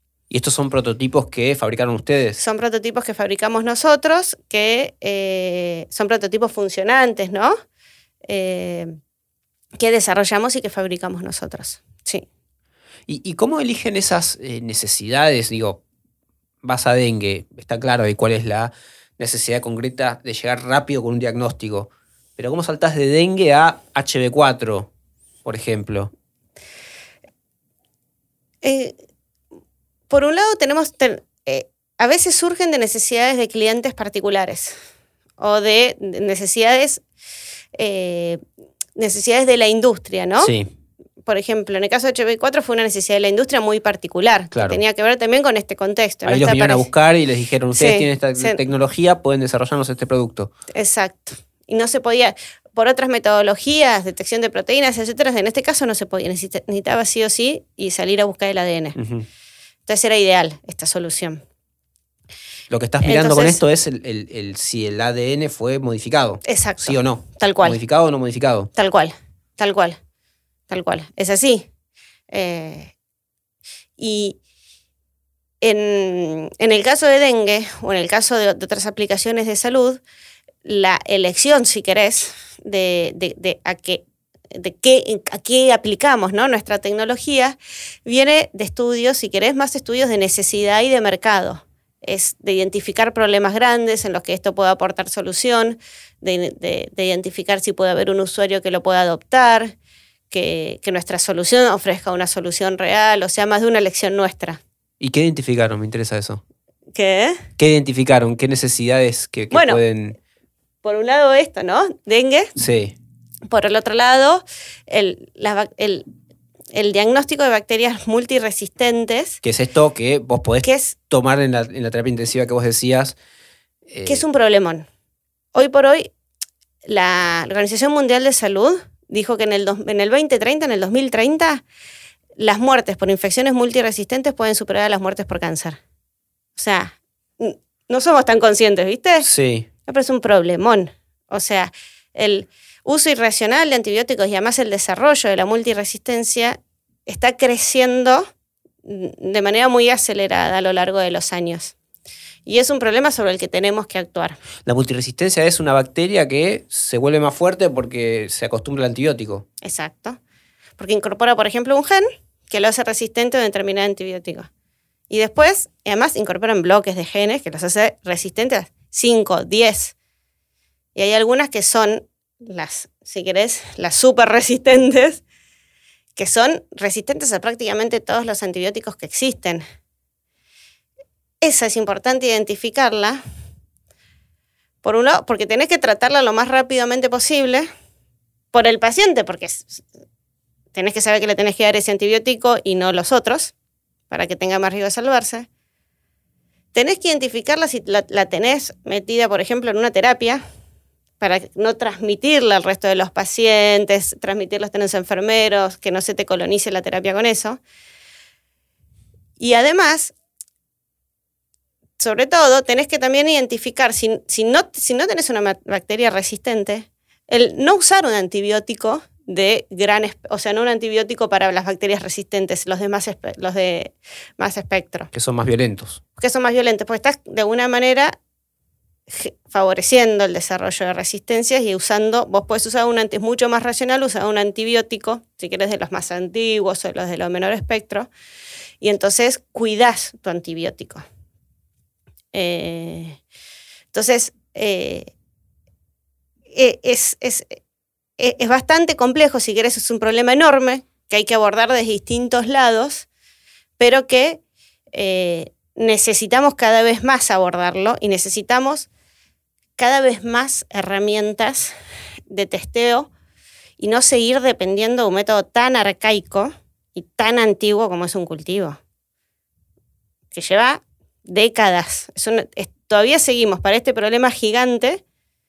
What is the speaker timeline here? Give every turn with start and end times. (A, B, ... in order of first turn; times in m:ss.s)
0:00.3-0:02.4 A
0:02.4-0:07.6 B
0:08.3-0:09.0 B
0:09.8-0:12.2 B
0:13.1-0:15.8 A
0:16.6-0:24.9 A
0:25.4-0:26.1 A
0:28.6-0:28.9 B
0:30.1-0:34.8 B
0:35.4-0:37.0 B
0:37.7-0:38.4 B
0:39.0-0:40.5 B
0:40.4-0:40.7 A
0:41.2-0:46.9 B
0:44.5-0:44.8 A
0:46.2-0:50.5 A
0:47.7-0:48.6 B
0:50.7-0:59.0 B
0:59.0-0:59.2 A
0:59.8-1:01.4 B
1:02.7-1:08.7 A
1:03.0-1:03.6 B
1:06.4-1:07.8 B
1:08.7-1:10.0 B
1:10.7-1:11.6 B
1:12.3-1:12.9 B
1:14.0-1:14.4 B
1:15.6-1:20.0 B
1:20.6-1:39.7 B
1:40.3-1:44.6 B
1:45.0-1:46.4 A
1:46.9-1:47.4 B
1:47.6-1:50.2 A
1:49.5-1:49.8 B
1:50.8-1:52.5 B
1:52.6-1:52.9 A
1:53.5-1:56.0 B
1:56.7-1:59.4 B
1:59.4-2:03.2 A
2:00.6-2:00.9 B
2:03.9-2:04.2 A
2:04.0-2:04.9 B
2:05.5-2:06.1 B
2:06.8-2:11.6 B
2:12.4-2:15.8 B
2:16.6-2:19.3 B
2:19.2-2:19.7 A
2:19.9-2:28.3 B
2:28.8-2:31.7 B
2:32.4-2:34.4 B
2:34.6-2:39.4 A
2:39.6-2:40.2 B
2:40.8-2:44.5 B
2:45.1-2:49.9 B
2:50.9-2:55.2 B
2:56.2-2:59.6 B
3:01.4-3:03.2 B
3:04.8-3:07.7 B
3:08.5-3:09.8 B
3:10.7-3:13.5 B
3:14.1-3:15.5 B
3:16.7-3:20.4 B
3:21.2-3:27.6 B
3:29.4-3:30.1 B
3:32.0-3:45.1 B
3:45.1-3:46.0 A
3:46.2-3:48.2 B
3:49.1-3:58.1 B
3:58.8-4:01.0 B
4:02.3-4:03.2 B
4:03.9-4:05.1 B
4:06.5-4:07.6 B
4:08.2-4:13.1 B
4:13.8-4:14.4 B
4:14.9-4:18.9 B
4:19.8-4:21.7 B
4:22.3-4:23.1 B
4:23.8-4:28.8 B
4:30.3-4:35.0 B